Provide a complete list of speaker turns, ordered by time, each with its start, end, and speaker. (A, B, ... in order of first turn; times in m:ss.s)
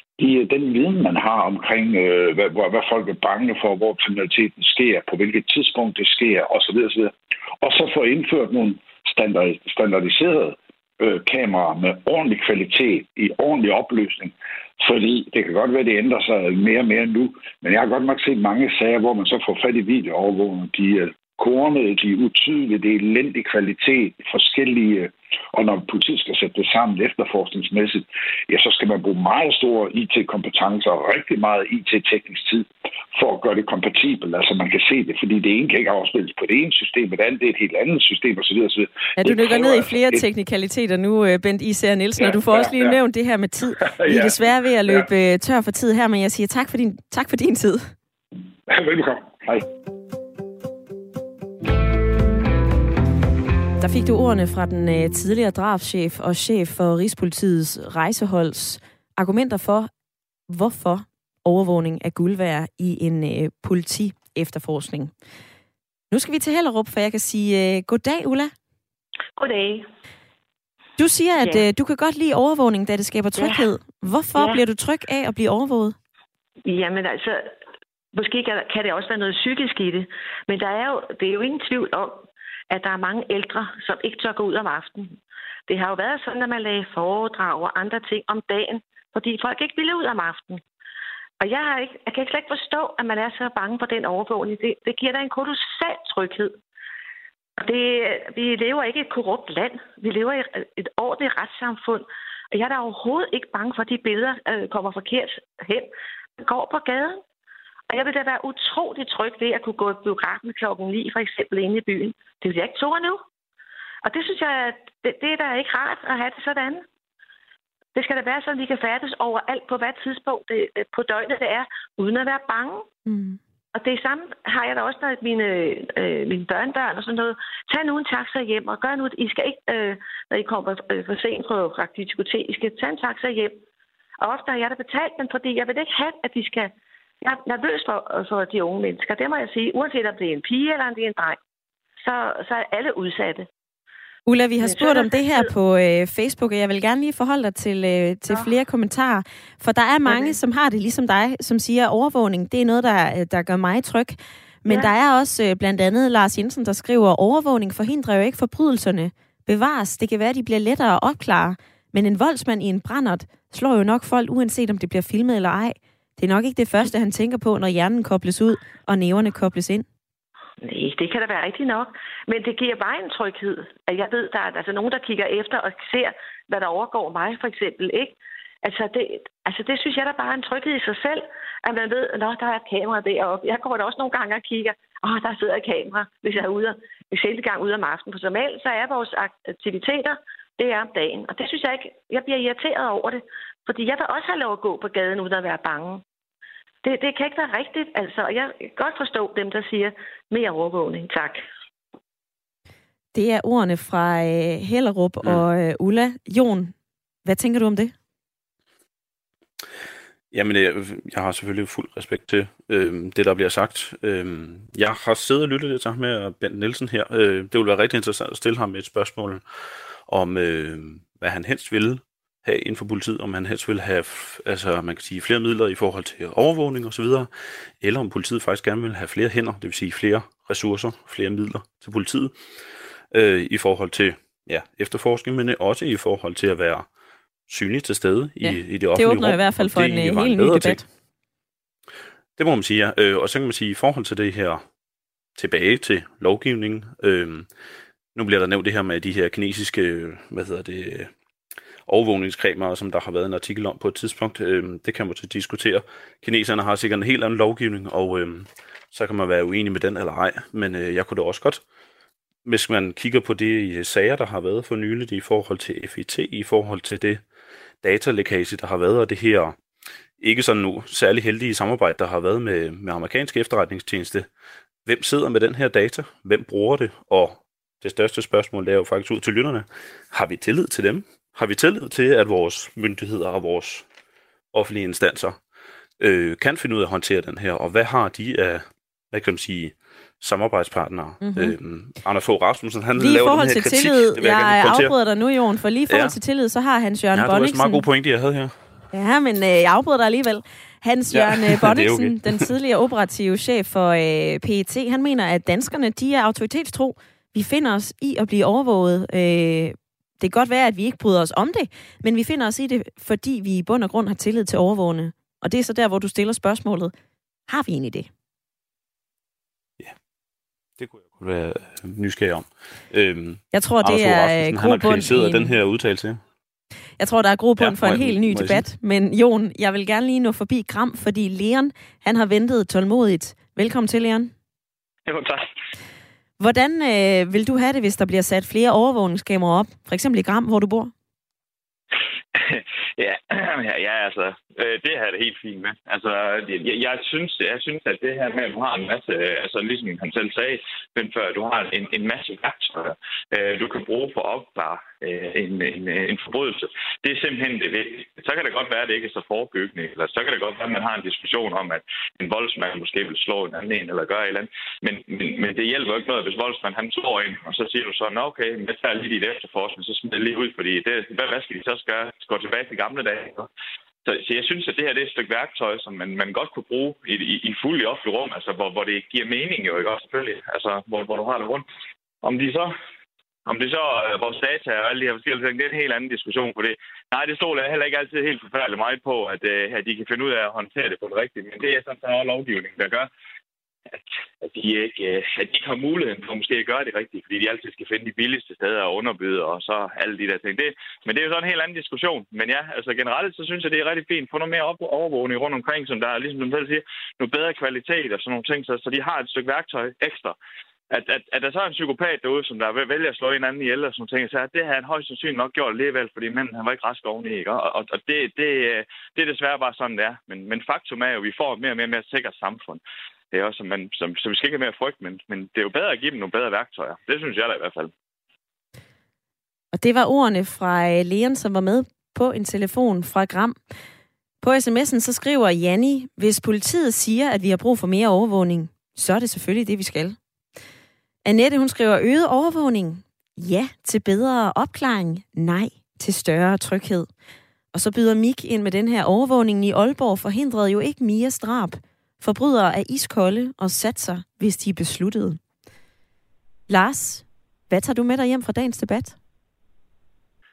0:00.2-0:40.2 A
0:39.2-0:47.9 B
0:42.2-0:43.0 A
0:43.8-0:45.1 A
0:48.7-0:49.7 A
0:53.8-0:59.9 B
1:00.5-1:05.1 B
1:06.1-1:08.5 B
1:09.4-1:09.9 C
1:11.0-1:16.0 B
1:11.4-1:11.7 C
1:13.4-1:13.7 C
1:14.4-1:14.6 C
1:16.7-1:17.5 C
1:18.1-1:25.2 C
1:25.7-1:30.6 C
1:31.4-1:36.6 C
1:37.6-1:47.2 C
1:47.9-1:53.2 C
1:54.0-1:56.8 C
1:58.0-2:02.9 C
2:03.1-2:03.4 B
2:03.7-2:13.6 C
2:14.2-2:21.4 C
2:22.0-2:23.5 C
2:24.3-2:49.9 B
2:24.6-2:25.5 C
2:30.0-2:30.4 C
2:34.7-2:34.9 C
2:50.6-3:16.0 C
3:16.8-3:21.4 C
3:23.1-3:26.7 B
3:27.2-3:27.9 B
3:30.3-3:39.4 D
3:40.1-3:47.3 D
3:47.8-3:52.3 D
3:53.1-3:56.9 D
3:57.5-4:00.8 D
3:58.4-4:00.8 B
4:02.4-4:04.6 D
4:05.4-4:07.5 D
4:08.1-4:11.1 D
4:11.9-4:21.6 D
4:22.4-4:27.2 D
4:27.8-4:29.6 D
4:30.2-4:34.3 D
4:34.9-4:43.8 D
4:44.5-4:45.4 D
4:46.0-4:54.9 D
4:51.2-4:51.6 B
4:53.0-4:57.8 B
4:55.9-4:56.2 D
4:57.1-4:58.6 D
4:58.9-5:16.9 B
5:01.1-5:02.5 D
5:17.5-5:18.1 B
5:20.8-5:26.2 D
5:23.5-5:25.5 B
5:27.0-5:34.3 B
5:27.6-5:28.6 D
5:35.1-5:35.4 E
5:36.4-5:40.9 B
5:42.4-5:43.0 E
5:43.7-6:13.4 E
6:14.1-6:21.6 E
6:22.2-6:22.7 E
6:23.5-6:33.0 E
6:34.5-6:50.3 E
6:50.9-7:02.8 E
7:03.3-7:07.9 E
7:09.7-7:13.6 B
7:14.4-7:20.2 B
7:21.2-7:27.1 B
7:27.7-7:35.4 B
7:36.7-7:39.2 B